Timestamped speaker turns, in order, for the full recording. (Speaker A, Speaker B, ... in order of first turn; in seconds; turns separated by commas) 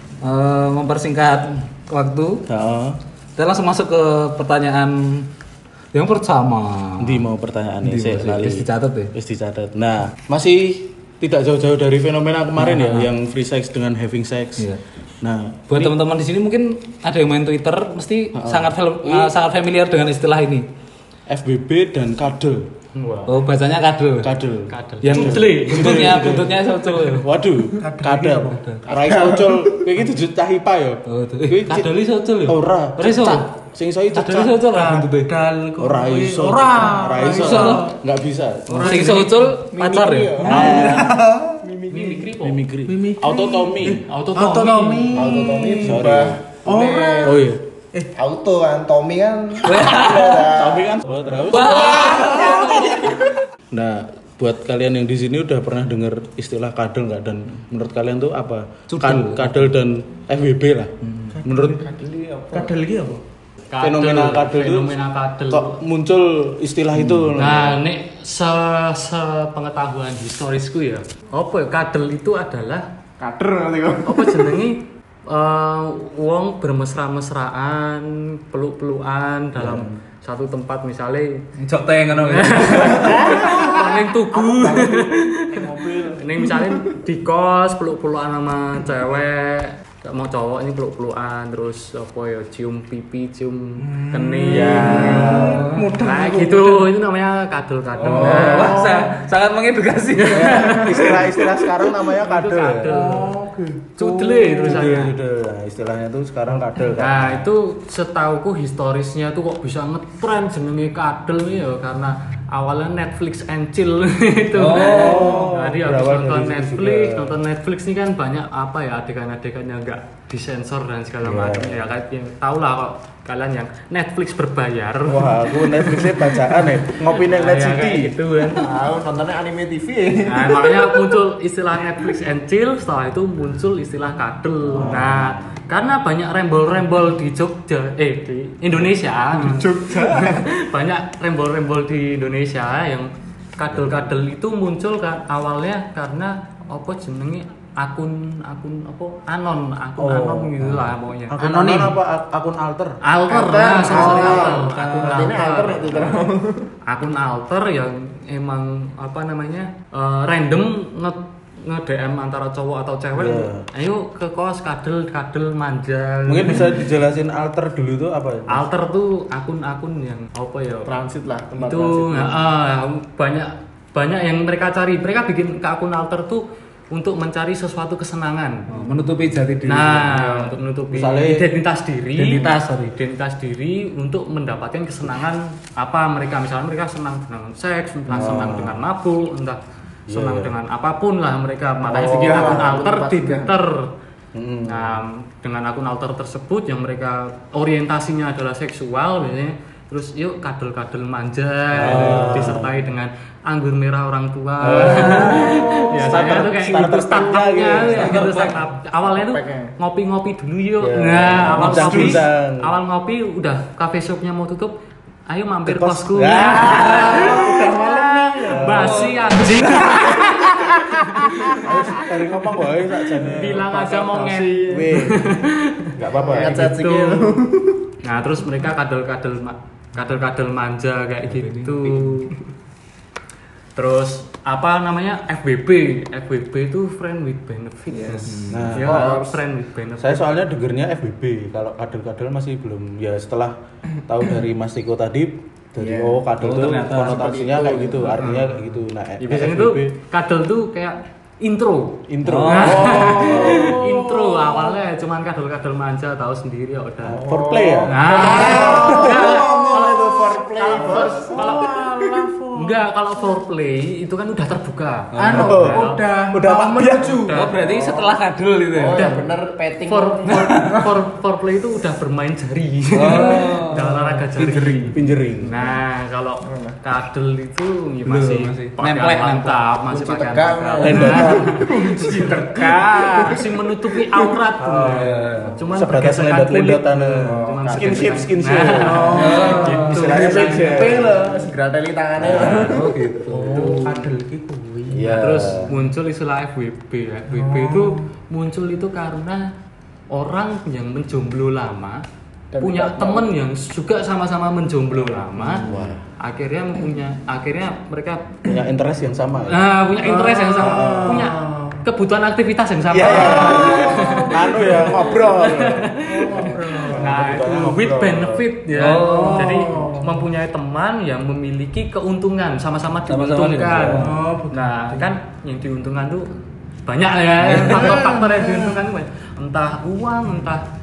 Speaker A: 0.2-2.4, Speaker B: 2.5-3.0, Speaker A: 3.4-5.3, Speaker A: 5.9-7.2, Speaker B: 7.0-14.7, Speaker A: 7.8-9.1, Speaker A: 12.6-13.1, Speaker B: 15.2-16.0, Speaker A: 15.7-20.7, Speaker B: 18.4-19.3, Speaker B: 21.3-22.7, Speaker C: 22.9-23.5, Speaker A: 23.3-24.3, Speaker B: 24.2-34.6, Speaker C: 24.7-26.0, Speaker A: 25.0-27.3, Speaker D: 27.8-28.6, Speaker A: 28.6-28.8, Speaker E: 28.9-29.9, Speaker A: 31.1-33.5, Speaker A: 34.1-35.3, Speaker D: 34.7-38.0, Speaker B: 35.8-39.1, Speaker A: 37.3-38.0, Speaker D: 38.7-39.5, Speaker A: 38.7-40.7, Speaker E: 39.7-42.3, Speaker D: 40.4-41.6, Speaker B: 40.4-41.2, Speaker C: 41.9-42.6, Speaker B: 42.4-44.0, Speaker D: 42.9-46.0, Speaker C: 44.1-45.2, Speaker E: 45.1-47.5, Speaker B: 45.8-46.4, Speaker D: 46.6-48.1, Speaker B: 47.2-47.6, Speaker E: 48.1-50.9, Speaker A: 49.6-50.5, Speaker B: 50.0-52.9, Speaker A: 51.5-53.1, Speaker E: 51.7-53.3, Speaker C: 52.2-52.8, Speaker B: 53.7-60.9, Speaker A: 58.9-59.7, Speaker A: 61.1-61.3, Speaker D: 61.3-61.9, Speaker B: 61.4-61.8, Speaker E: 61.8-62.8, Speaker D: 62.5-63.2, Speaker C: 63.7-65.8, Speaker B: 63.8-64.9, Speaker B: 65.5-67.8, Speaker C: 67.3-72.9, Speaker E: 73.2-74.5, Speaker C: 74.0-81.5, Speaker B: 79.6-80.0, Speaker A: 81.6-83.3, Speaker C: 82.2-99.0, Speaker E: 83.0-85.0, Speaker D: 83.0-83.6, Speaker B: 84.6-84.9, Speaker B: 85.6-86.0, Speaker E: 85.7-86.9, Speaker D: 93.8-96.9, Speaker B: 94.5-95.7, Speaker A: 95.2-95.9, Speaker D: 98.0-99.3, Speaker A: 98.1-101.6, Speaker C: 100.1-101.2, Speaker B: 100.3-103.0, Speaker C: 101.9-103.4, Speaker D: 102.9-104.8, Speaker C: 104.0-105.1, Speaker B: 104.6-107.5, Speaker C: 106.9-128.7, Speaker A: 114.5-115.4, Speaker B: 114.7-117.4, Speaker B: 121.2-121.8, Speaker B: 125.1-128.1, Speaker E: 128.4-131.1, Speaker C: 130.3-151.4, Speaker B: 134.7-135.5, Speaker E: 139.3-140.5, Speaker B: 143.7-144.1, Speaker B: 150.0-153.0, Speaker A: 151.5-151.9, Speaker C: 153.0-156.3, Speaker E: 153.3-156.7, Speaker B: 153.7-155.2, Speaker C: 156.9-166.9, Speaker B: 163.2-163.7, Speaker B: 166.3-168.7, Speaker C: 168.5-170.9, Speaker E: 170.9-172.4, Speaker C: 171.5-178.7, Speaker A: 178.7-180.5, Speaker C: 179.7-193.9, Speaker B: 180.9-181.5, Speaker A: 182.2-182.9, Speaker B: 188.1-188.8, Speaker B: 190.1-190.5, Speaker E: 191.8-193.6, Speaker B: 194.3-195.0, Speaker C: 194.7-214.7, Speaker B: 201.7-202.7, Speaker A: 201.9-202.2, Speaker B: 204.6-208.6, Speaker A: 207.9-208.6, Speaker E: 209.0-209.7, Speaker B: 210.8-212.7, Speaker A: 211.6-212.0, Speaker C: 215.3-220.3, Speaker B: 215.7-217.5, Speaker E: 216.4-219.2, Speaker A: 216.7-217.3, Speaker B: 218.5-220.1, Speaker A: 218.7-221.0, Speaker B: 221.6-223.6, Speaker E: 221.6-222.1, Speaker E: 223.3-225.2, Speaker C: 223.3-227.4, Speaker B: 224.7-225.3, Speaker B: 226.0-226.7, Speaker E: 226.1-227.9, Speaker C: 228.0-232.4, Speaker A: 231.3-232.3, Speaker C: 233.8-240.5, Speaker E: 237.9-239.4, Speaker A: 238.3-238.6, Speaker B: 238.5-239.2, Speaker B: 240.0-243.6, Speaker B: 244.1-249.9, Speaker E: 245.8-246.2, Speaker A: 246.4-247.2, Speaker E: 247.0-248.3, Speaker C: 248.2-248.6, Speaker C: 249.2-257.2, Speaker B: 252.1-253.8, Speaker A: 252.2-253.3, Speaker D: 252.6-254.8, Speaker B: 257.1-259.9, Speaker E: 257.1-261.7, Speaker C: 257.9-261.8, Speaker D: 258.1-262.8, Speaker B: 260.7-261.1, Speaker C: 262.6-266.0, Speaker A: 265.1-265.5, Speaker D: 265.2-267.4, Speaker B: 265.2-267.2, Speaker C: 267.0-267.6, Speaker A: 267.3-269.1, Speaker E: 267.6-268.2, Speaker E: 268.7-270.6, Speaker C: 268.8-269.3, Speaker C: 269.9-290.9, Speaker A: 270.3-270.8, Speaker A: 273.0-275.0, Speaker B: 273.0-273.6, Speaker B: 274.9-275.6, Speaker E: 276.4-276.8, Speaker A: 278.1-279.6, Speaker E: 279.9-283.4, Speaker B: 280.8-281.5, Speaker A: 282.6-283.0, Speaker E: 284.0-284.4, Speaker B: 284.6-291.2, Speaker A: 284.8-285.5, Speaker E: 287.2-288.2, Speaker D: 288.8-290.6, Speaker A: 289.1-290.0, Speaker E: 289.9-292.9, Speaker B: 292.2-292.9, Speaker C: 292.3-292.9, Speaker A: 292.6-294.0, Speaker D: 293.3-295.2, Speaker C: 293.5-293.8, Speaker B: 294.9-295.9, Speaker C: 295.1-299.5, Speaker D: 297.3-298.1, Speaker C: 300.1-302.0, Speaker E: 302.5-303.3, Speaker C: 302.6-305.7, Speaker B: 305.5-306.1, Speaker C: 306.2-308.5, Speaker B: 308.5-309.7, Speaker C: 309.5-326.3, Speaker D: 310.0-311.4, Speaker B: 310.6-311.3, Speaker E: 310.6-311.8, Speaker B: 312.9-318.5, Speaker D: 313.1-315.2, Speaker D: 316.0-317.1, Speaker A: 318.8-319.6, Speaker D: 319.0-320.2, Speaker A: 323.1-324.2, Speaker D: 324.0-325.1, Speaker C: 326.9-330.6, Speaker A: 327.5-327.8, Speaker D: 327.5-328.7